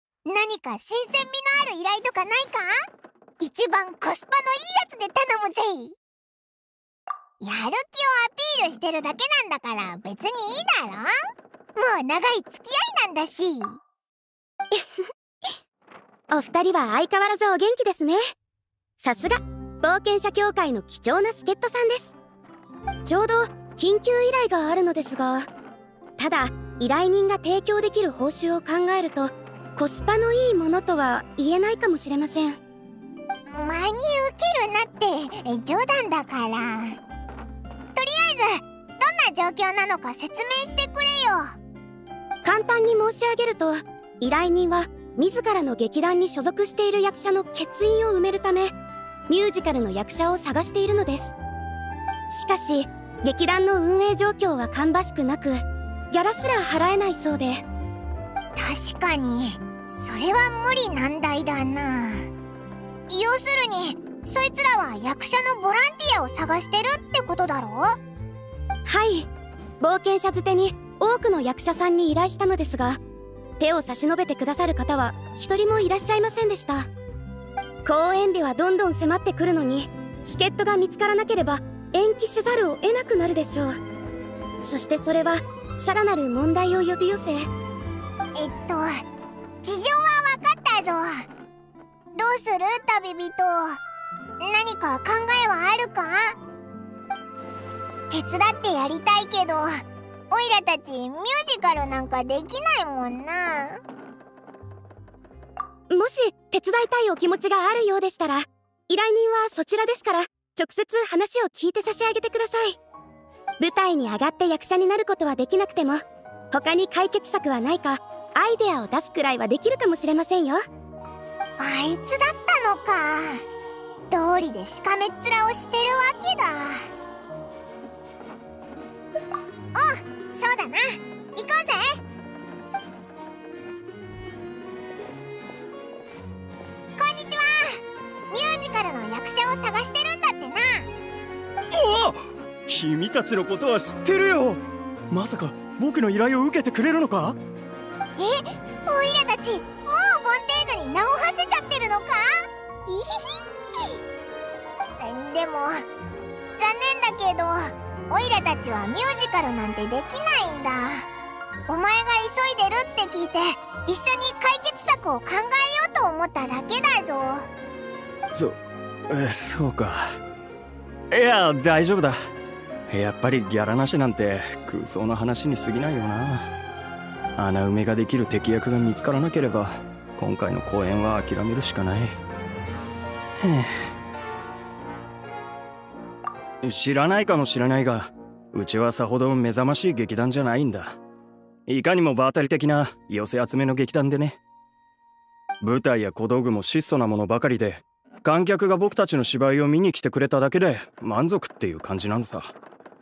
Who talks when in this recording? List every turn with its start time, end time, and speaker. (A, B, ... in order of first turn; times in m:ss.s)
0:00.3-0:02.8 A
0:03.4-0:06.0 A
0:07.4-0:11.1 A
0:11.8-0:13.8 A
0:16.3-0:18.3 B
0:19.0-0:22.2 B
0:23.0-0:25.5 B
0:26.2-0:32.6 B
0:33.5-0:37.0 A
0:38.0-0:41.6 A
0:42.4-0:48.7 B
0:49.3-0:51.4 B
0:52.3-0:57.6 B
0:58.6-1:02.3 A
1:03.1-1:08.0 A
1:08.8-1:09.3 B
1:09.8-1:13.0 B
1:13.6-1:16.9 B
1:17.8-1:23.8 B
1:24.6-1:27.5 B
1:28.4-1:29.0 A
1:29.6-1:31.3 A
1:32.2-1:33.8 A
1:34.4-1:36.4 A
1:38.1-1:43.8 A
1:45.9-1:52.8 B
1:53.6-2:00.6 B
2:01.6-2:03.4 A
2:04.1-2:06.9 A
2:09.7-2:12.0 A
2:17.0-2:20.9 A
2:21.7-2:27.4 C
2:28.2-2:32.2 A
2:32.9-2:34.0 A
2:35.0-2:35.8 A
2:36.6-2:41.1 A
2:41.7-2:47.5 A
2:49.1-2:50.0 C
2:51.1-2:52.2 C
2:52.9-2:56.5 C
2:57.4-3:02.2 C
3:03.4-3:03.9 C
3:06.6-3:11.0 C
3:11.7-3:14.4 C
3:15.6-3:22.5 C